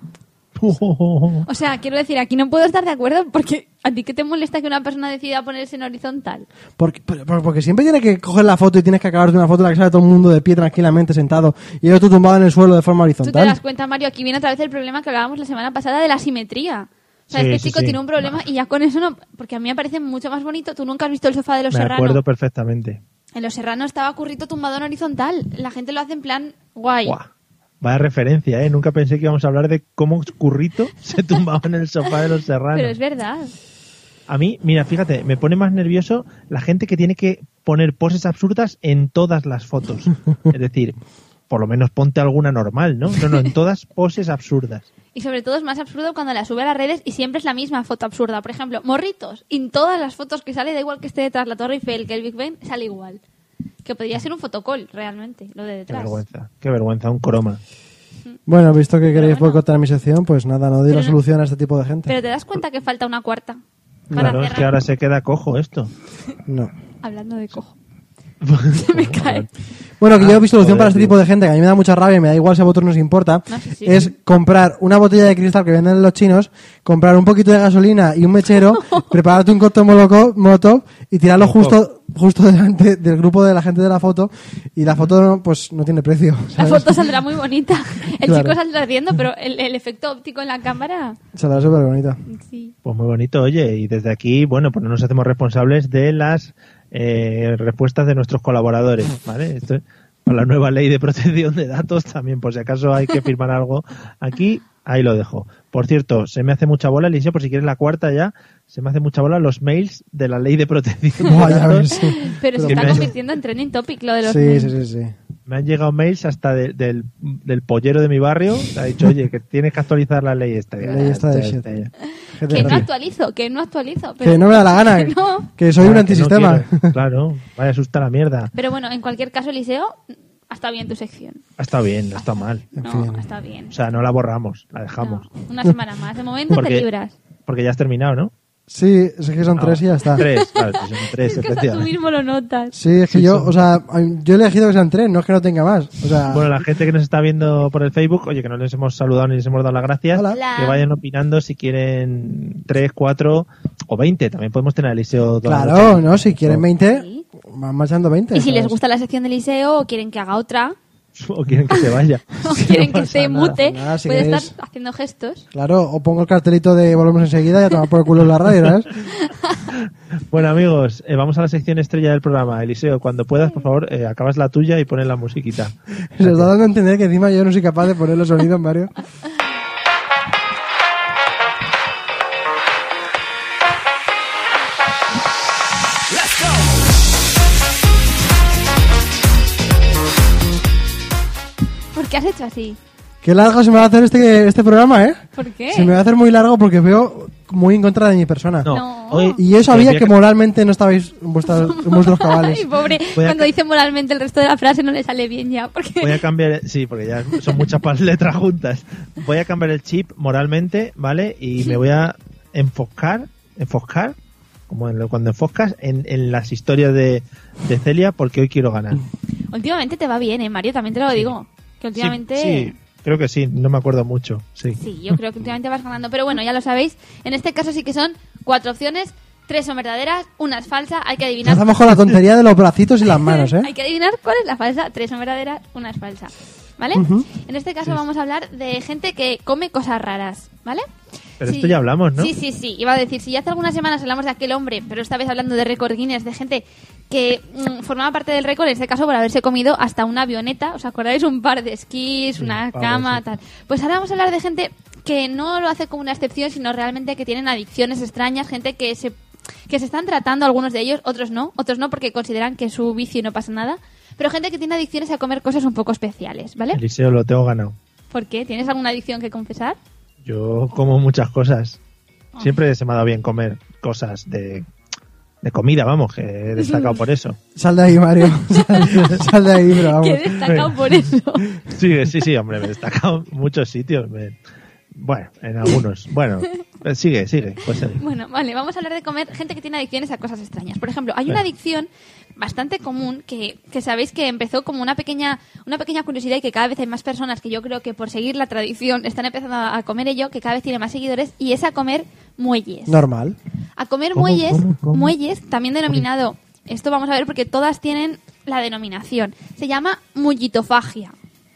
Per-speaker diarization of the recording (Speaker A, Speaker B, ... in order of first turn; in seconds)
Speaker A: 0.6-1.5, 17.3-18.4, 21.7-23.0, 27.8-32.9, 34.3-41.0, 41.5-44.9, 55.9-57.6, 64.1-65.9, 68.4-69.5, 70.1-71.1, 81.4-81.8, 92.8-111.9, 112.6-113.1, 115.5-121.9, 122.5-122.8, 125.8-128.5, 131.6-132.7, 133.7-135.3, 136.5-136.9, 137.4-138.3, 139.5-141.9, 143.1-143.5, 146.3-156.6, 161.2-163.6, 170.3-176.5, 198.6-200.1, 203.2-203.5, 206.0-214.2, 214.7-219.1, 221.9-224.8, 241.4-242.3, 252.4-253.2, 266.7-267.7, 270.2-271.8, 272.4-274.7, 275.4-277.4, 280.4-280.9, 281.6-284.4, 284.9-288.0, 304.1-305.1
Speaker B: 1.4-6.5, 13.2-22.2, 23.3-27.1, 32.7-33.5, 45.1-53.2, 53.8-56.2, 59.1-59.6, 60.9-61.2, 62.1-63.6, 64.1-64.7, 67.0-67.8, 68.7-69.5, 73.5-74.1, 78.7-79.1, 86.6-91.2, 92.3-92.7, 111.9-114.7, 122.5-125.5, 128.5-131.4, 132.2-133.7, 135.0-137.1, 140.2-142.7, 150.3-150.8, 156.8-157.2, 158.3-160.8, 162.4-165.4, 169.1-169.7, 191.9-192.8, 195.3-195.9, 198.7-199.4, 201.4-206.2, 219.5-222.7, 224.8-231.6, 233.1-240.8, 241.4-259.2, 259.7-266.8, 268.1-269.8, 276.6-277.0, 278.4-279.1, 279.7-281.5, 288.0-303.0, 303.8-311.1
Speaker C: 6.8-13.6, 58.5-62.1, 64.1-64.4, 66.5-66.7, 70.0-87.0, 88.2-88.5, 91.3-92.2, 111.2-113.1, 114.2-115.1, 120.8-121.6, 122.3-122.9, 124.2-126.9, 132.8-133.2, 138.7-140.2, 142.7-146.5, 150.1-150.4, 155.4-158.8, 163.6-164.5, 165.5-168.9, 176.1-178.9, 193.2-198.7, 199.3-202.7, 231.4-233.7, 236.9-237.3, 277.6-280.4, 302.9-303.4